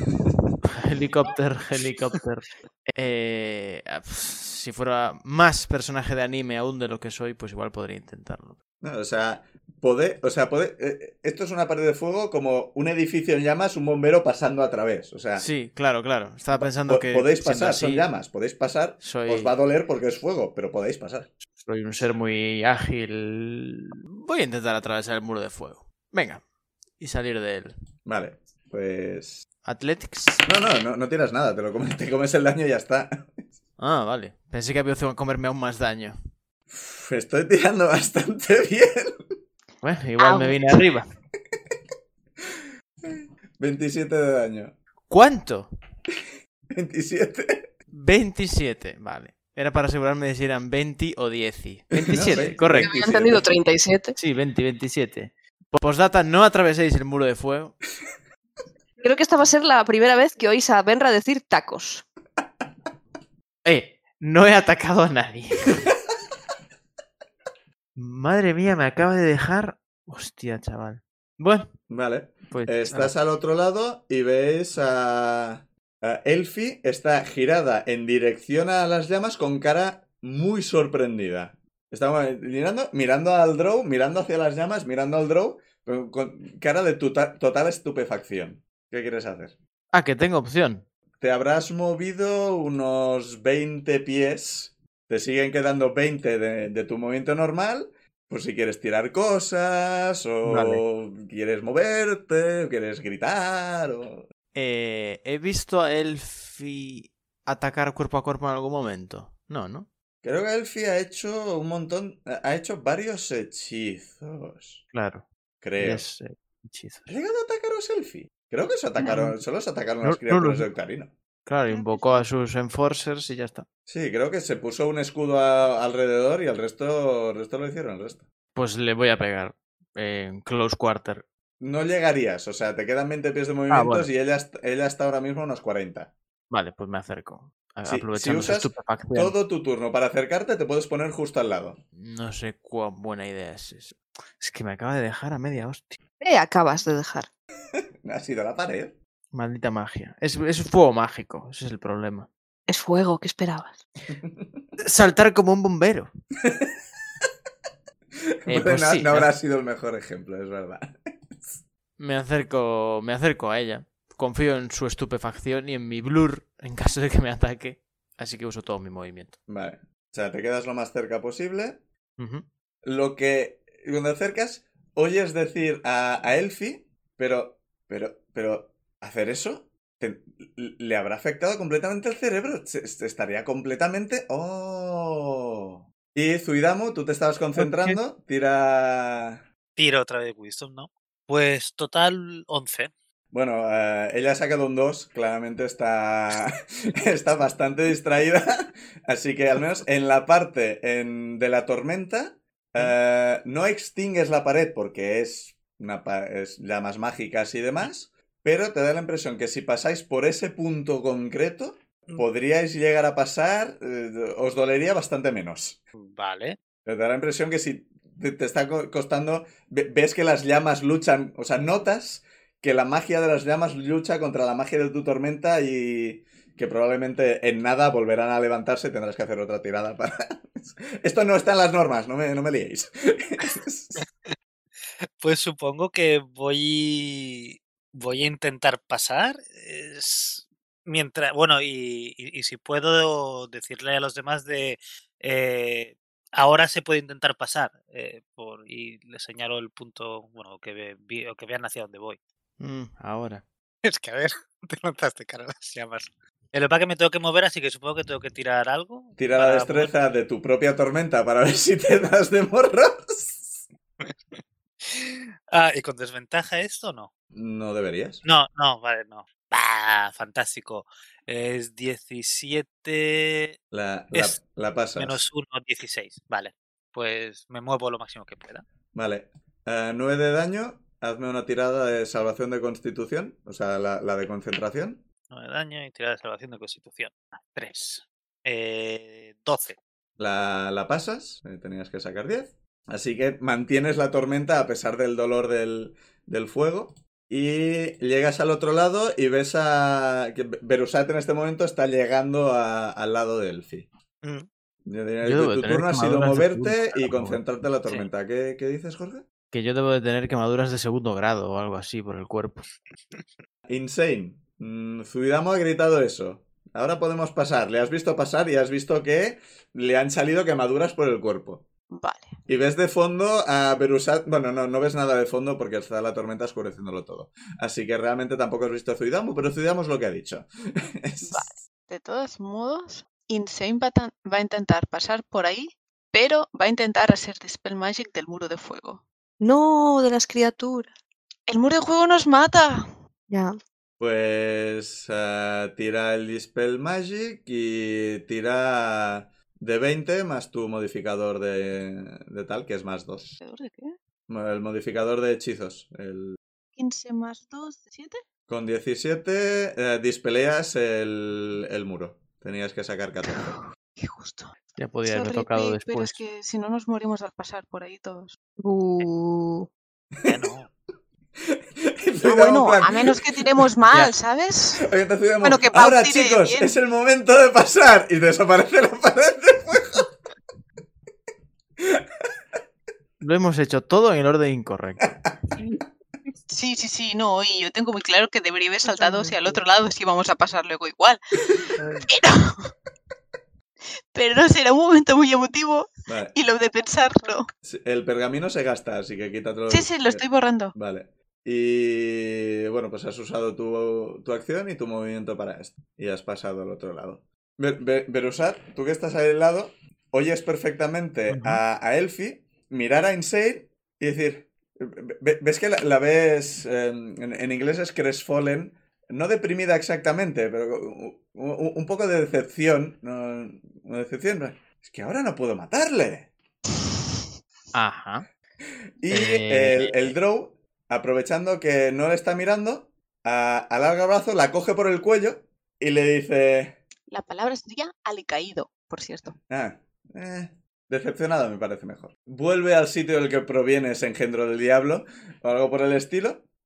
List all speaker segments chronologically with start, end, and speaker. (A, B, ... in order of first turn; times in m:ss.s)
0:00.6-0:08.6 A
0:08.8-0:15.5 B
0:15.4-0:18.1 A
0:16.6-0:21.3 B
0:19.0-0:19.5 A
0:21.6-0:26.4 A
0:27.0-0:27.7 A
0:28.1-0:29.5 B
0:29.6-0:30.5 A
0:30.4-0:33.4 B
0:33.8-0:36.2 A
0:36.7-0:39.3 B
0:39.8-0:41.1 A
0:40.2-0:40.8 C
0:43.0-0:44.7 B
0:45.1-0:45.7 A
0:46.7-0:47.7 B
0:47.9-0:53.0 A
0:52.0-0:53.5 B
0:52.7-0:54.2 D
0:54.2-0:57.8 A
0:59.0-1:02.0 D
1:03.6-1:05.8 A
1:08.0-1:11.7 A
1:11.9-1:29.6 B
1:12.5-1:13.1 A
1:29.9-1:30.9 A
1:31.2-1:44.2 B
1:40.4-1:40.8 A
1:44.5-1:49.9 A
1:50.2-1:54.8 B
1:54.9-1:55.2 A
1:55.6-1:56.1 B
1:55.8-1:57.1 A
1:57.1-2:01.1 B
2:00.0-2:00.7 A
2:01.4-2:03.7 A
2:01.7-2:02.2 C
2:03.9-2:08.2 B
2:08.6-2:11.3 A
2:11.6-2:16.1 B
2:13.7-2:14.1 A
2:16.5-2:19.3 A
2:17.9-2:21.8 B
2:22.0-2:26.0 A
2:26.2-2:27.3 D
2:28.0-2:29.0 B
2:29.3-2:32.3 A
2:32.7-2:33.8 D
2:34.2-2:34.6 B
2:34.8-2:36.1 A
2:36.4-2:36.7 B
2:38.4-2:41.6 B
2:38.5-2:39.3 A
2:42.0-2:49.4 A
2:49.5-2:51.8 B
2:52.2-2:52.4 A
2:52.8-3:09.4 B
3:07.6-3:08.0 A
3:09.8-3:12.9 E
3:13.3-3:35.8 B
3:36.0-3:36.6 E
3:36.9-3:54.0 B
3:54.0-3:54.3 E
3:55.2-4:12.2 E
4:12.6-4:13.4 A
4:13.8-4:19.9 E
4:19.2-4:23.6 B
4:24.0-4:27.1 E
4:27.3-4:28.2 B
4:28.2-4:33.6 E
4:33.7-4:35.3 B
4:34.1-4:34.4 E
4:35.0-4:38.6 E
4:38.9-4:45.0 B
4:45.3-4:49.8 E
4:50.2-5:03.9 B
5:04.2-5:04.5 E
5:04.9-5:09.3 B
5:05.2-5:07.4 A
5:09.5-5:12.7 A
5:13.7-5:21.6 B
5:21.9-5:22.4 C
5:22.5-5:31.6 B
5:31.2-5:39.0 C
5:39.4-5:40.9 D
5:41.5-5:42.8 C
5:43.3-5:43.6 D
5:44.0-5:53.4 B
5:53.4-5:54.0 C
5:54.3-5:56.4 B
5:56.8-5:58.2 C
5:58.5-6:03.6 B
6:04.0-6:04.5 C
6:04.8-6:06.2 A
6:05.0-6:08.3 C
6:08.6-6:09.7 D
6:10.2-6:10.7 E
6:11.4-6:13.6 B
6:12.2-6:14.9 C
6:14.8-6:20.1 B
6:15.4-6:16.7 C
6:21.8-6:22.0 B
6:23.2-6:25.1 A
6:25.0-6:25.4 B
6:26.5-6:32.7 C
6:28.9-6:29.4 D
6:34.1-6:37.5 C
6:36.1-6:36.4 B
6:37.6-6:40.2 B
6:39.7-6:40.8 C
6:40.8-7:06.3 B
6:51.3-6:51.6 A
7:07.7-7:08.3 A
7:09.0-7:16.8 B
7:09.1-7:10.1 A
7:17.1-7:19.4 C
7:19.5-7:26.4 B